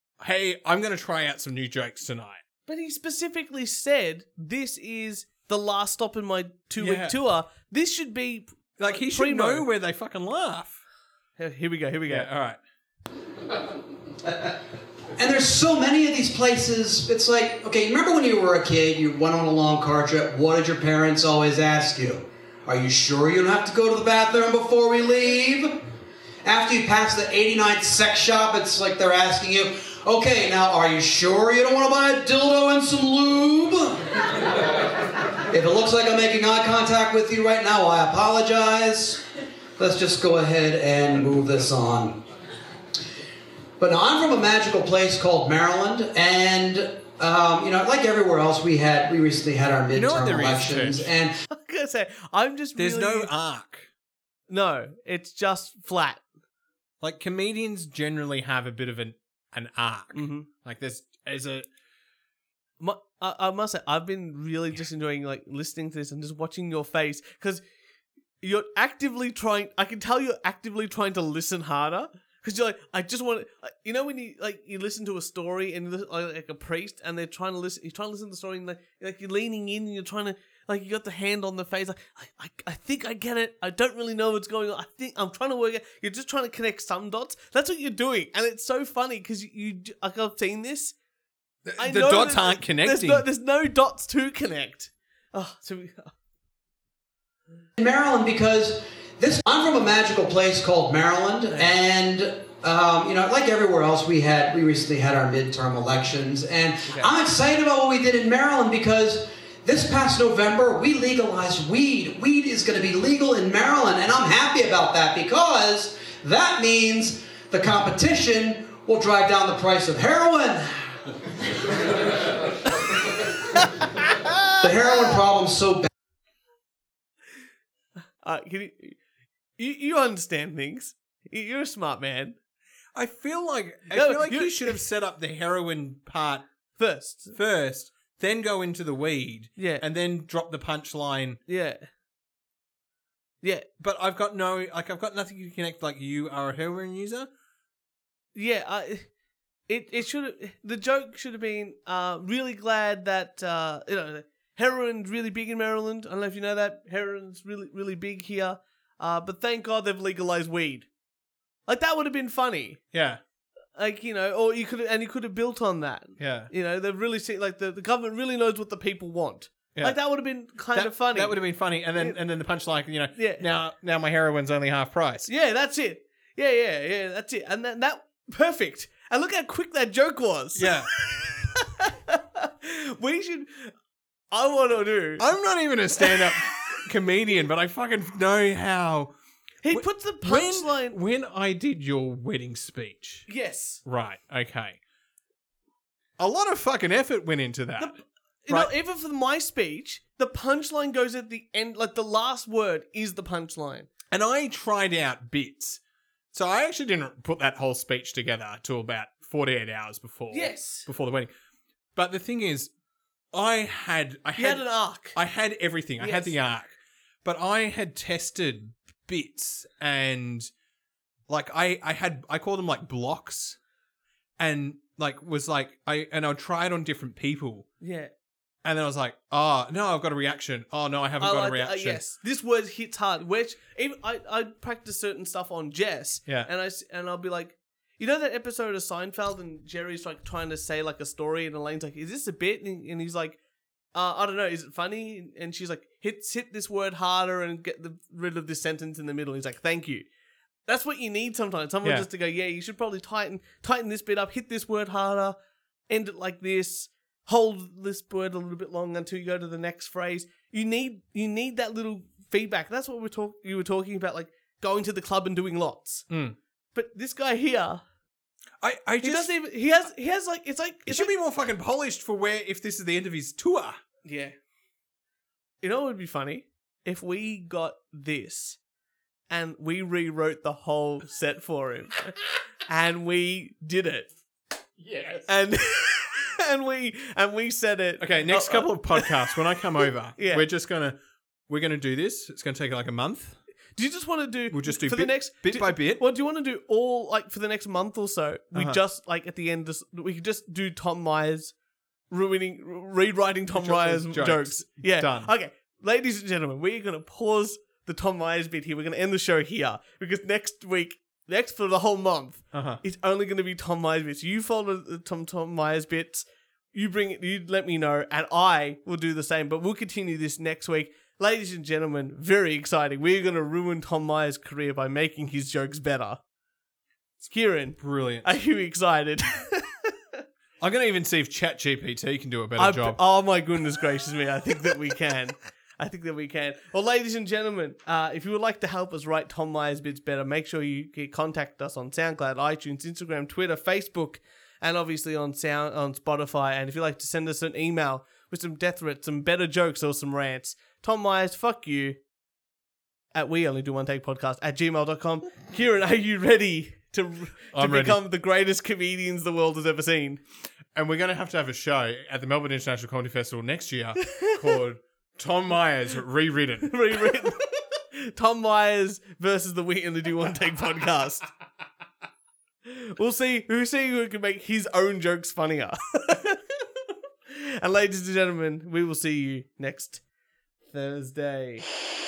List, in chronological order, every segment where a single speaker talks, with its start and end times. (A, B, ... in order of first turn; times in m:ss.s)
0:00.2-0:02.4 A
0:02.6-0:09.6 B
0:06.8-0:07.2 A
0:08.8-0:10.8 A
0:11.4-0:12.3 B
0:12.1-0:12.6 A
0:15.2-0:25.8 C
0:26.4-0:34.2 C
0:35.5-0:39.2 C
0:39.8-0:42.2 C
0:43.8-0:51.3 C
0:49.9-0:51.1 A
0:51.5-0:53.3 B
0:52.8-0:53.9 A
0:54.5-0:56.2 B
0:57.0-1:01.6 A
1:00.1-1:00.5 B
1:02.8-1:07.6 B
1:08.4-1:30.9 B
1:31.6-1:33.2 A
1:31.8-1:36.1 B
1:37.8-2:00.9 C
2:04.6-2:05.9 C
2:08.2-2:09.0 B
2:09.6-2:12.4 B
2:12.9-2:16.4 A
2:13.9-2:14.8 B
2:16.8-2:17.3 B
2:17.3-2:21.4 A
2:19.6-2:19.8 B
2:21.5-2:21.8 B
2:23.4-2:23.7 B
2:23.8-2:27.3 A
2:28.3-2:29.1 B
2:29.7-2:40.9 B
2:41.7-2:42.8 B
2:42.9-2:43.2 A
2:43.8-2:51.4 B
2:46.2-2:46.5 A
2:49.7-2:50.0 A
2:50.7-2:55.3 A
2:53.1-2:53.4 B
2:55.3-3:03.7 B
3:00.6-3:00.9 A
3:04.3-3:05.2 B
3:05.2-3:09.1 A
3:06.0-3:06.8 B
3:09.6-3:11.0 B
3:09.7-3:13.3 A
3:13.3-3:13.8 B
3:13.8-3:14.8 A
3:16.2-3:18.7 A
3:17.8-3:23.9 B
3:24.1-3:25.8 A
3:26.3-3:31.3 A
3:30.3-3:30.9 B
3:32.0-3:32.7 A
3:33.3-3:36.7 A
3:34.4-3:35.2 B
3:36.0-3:36.4 B
3:37.2-3:40.5 A
3:41.3-3:43.6 A
3:44.4-3:47.7 A
3:47.8-3:48.1 B
3:48.6-3:52.0 A
3:51.2-4:03.4 B
4:03.9-4:10.0 B
4:10.6-4:15.4 B
4:11.8-4:12.1 A
4:15.9-4:26.1 B
4:26.1-4:26.4 A
4:26.7-4:27.8 B
4:28.6-4:29.3 A
4:29.0-4:31.1 B
4:30.9-4:33.8 A
4:34.0-4:34.3 B
4:35.6-4:38.6 B
4:39.3-4:44.1 B
4:44.8-4:45.3 A
4:45.3-4:50.4 B
4:48.0-4:51.0 A
4:51.5-4:53.4 A
4:53.8-5:01.5 B
4:54.5-4:56.0 A
4:58.5-4:58.8 A
5:02.1-5:26.2 B
5:03.5-5:05.3 A
5:12.5-5:12.8 A
5:27.2-5:30.2 B
5:27.8-5:28.3 A
5:30.6-5:33.0 A
5:32.6-5:52.0 B
5:53.1-6:00.2 B
5:57.5-5:58.0 A
6:00.7-6:07.2 A
6:04.1-6:04.6 B
6:06.6-6:11.2 B
6:12.6-6:16.4 B
6:17.3-6:20.0 B
6:20.7-6:21.6 B